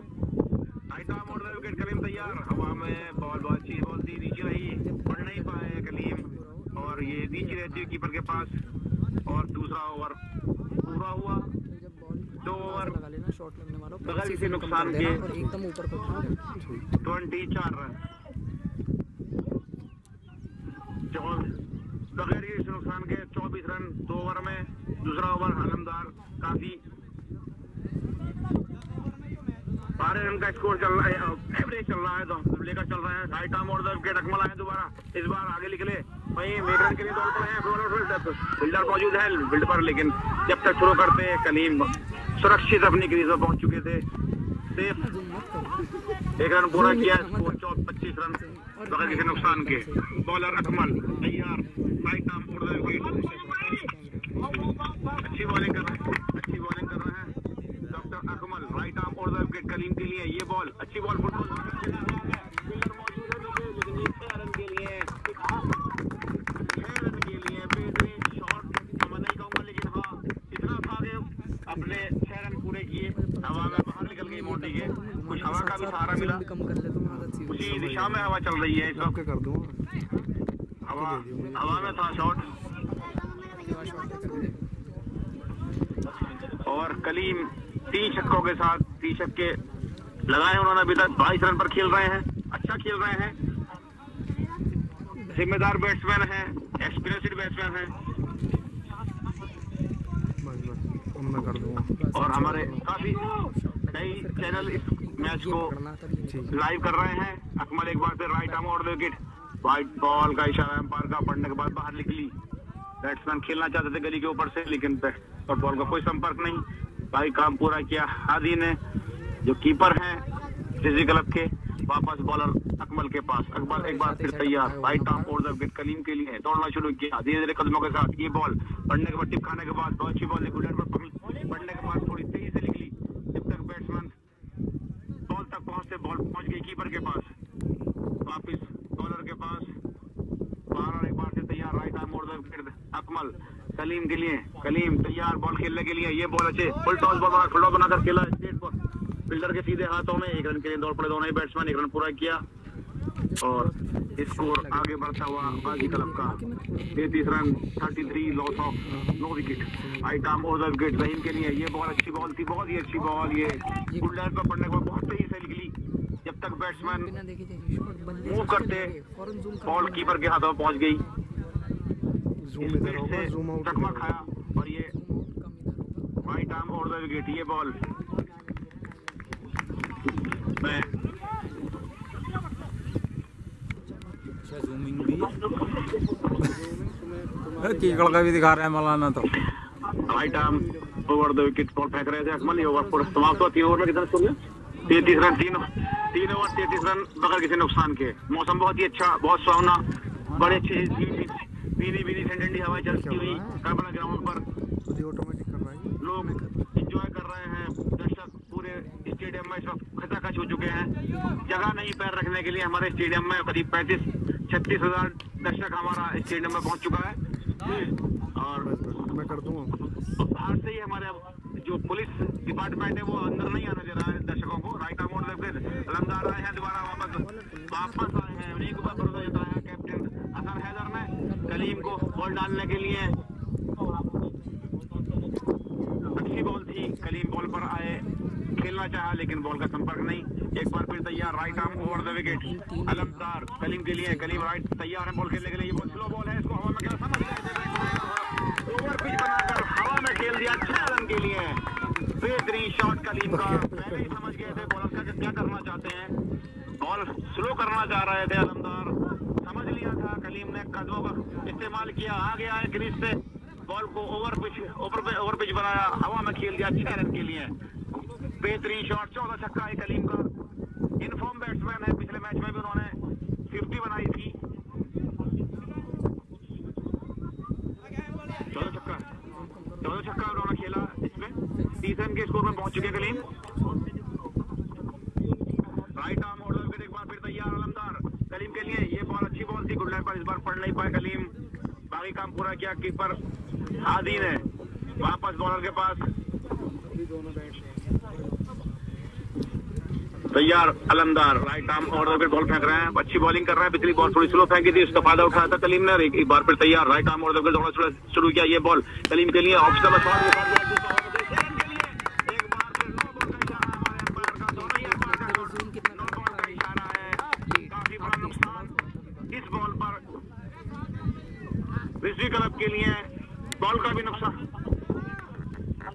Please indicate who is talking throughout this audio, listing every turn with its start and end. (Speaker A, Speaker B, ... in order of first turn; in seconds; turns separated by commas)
Speaker A: 0.9-8.5, Speaker B: 4.8-8.0, Speaker A: 9.3-10.2, Speaker A: 10.8-11.5, Speaker B: 11.7-16.4, Speaker A: 12.4-12.9, Speaker A: 14.1-15.2, Speaker C: 16.6-16.9, Speaker A: 17.0-17.9, Speaker A: 21.1-21.5, Speaker A: 22.2-26.8, Speaker A: 30.0-44.0, Speaker A: 44.8-45.0, Speaker B: 45.0-45.9, Speaker A: 46.4-53.2, Speaker B: 46.7-47.6, Speaker B: 48.4-50.1, Speaker B: 50.8-51.1, Speaker B: 53.0-54.6, Speaker A: 55.1-57.3, Speaker A: 57.9-65.8, Speaker A: 66.6-76.4, Speaker B: 73.2-77.7, Speaker C: 77.1-78.3, Speaker A: 77.5-79.1, Speaker C: 78.9-79.8, Speaker A: 80.8-82.5, Speaker C: 80.9-82.2, Speaker B: 83.5-84.6, Speaker A: 86.7-89.6, Speaker A: 90.3-93.4, Speaker A: 95.3-97.9, Speaker C: 100.4-101.9, Speaker B: 101.6-106.7, Speaker A: 102.1-103.3, Speaker A: 103.9-105.7, Speaker A: 106.5-112.3, Speaker A: 113.0-118.8, Speaker A: 119.5-120.2, Speaker A: 120.8-134.1, Speaker B: 123.7-125.3, Speaker A: 135.3-137.3, Speaker A: 138.2-139.7, Speaker A: 140.7-148.7, Speaker A: 149.3-152.4, Speaker B: 153.3-157.7, Speaker A: 153.4-156.4, Speaker A: 156.9-165.7, Speaker C: 158.8-160.4, Speaker A: 166.2-167.1, Speaker B: 166.9-170.2, Speaker A: 168.3-168.9, Speaker A: 169.7-171.0, Speaker C: 172.4-174.1, Speaker A: 172.6-174.9, Speaker B: 174.9-176.2, Speaker A: 176.2-177.8, Speaker A: 180.6-180.9, Speaker D: 184.5-185.3, Speaker D: 187.6-189.3, Speaker A: 190.0-194.4, Speaker A: 194.9-204.4, Speaker B: 194.9-195.3, Speaker C: 202.9-203.6, Speaker C: 204.8-206.0, Speaker A: 206.0-210.9, Speaker A: 211.4-217.2, Speaker A: 218.4-218.7, Speaker C: 218.6-219.7, Speaker A: 220.2-233.2, Speaker B: 227.2-229.5, Speaker B: 231.2-232.3, Speaker A: 236.2-238.0, Speaker A: 238.6-251.6, Speaker B: 241.6-243.3, Speaker A: 252.2-256.1, Speaker C: 253.3-254.2, Speaker A: 256.8-267.5, Speaker A: 268.4-270.3, Speaker A: 271.0-273.0, Speaker A: 273.5-274.4, Speaker A: 278.5-279.1, Speaker B: 279.4-280.1, Speaker A: 279.8-283.2, Speaker B: 282.7-283.1, Speaker A: 286.0-291.3, Speaker A: 291.9-293.2, Speaker A: 293.8-294.5, Speaker A: 295.0-296.1, Speaker A: 300.3-318.7, Speaker B: 314.6-316.8, Speaker B: 317.3-319.3, Speaker A: 319.3-320.0, Speaker A: 322.0-323.1, Speaker A: 323.6-324.4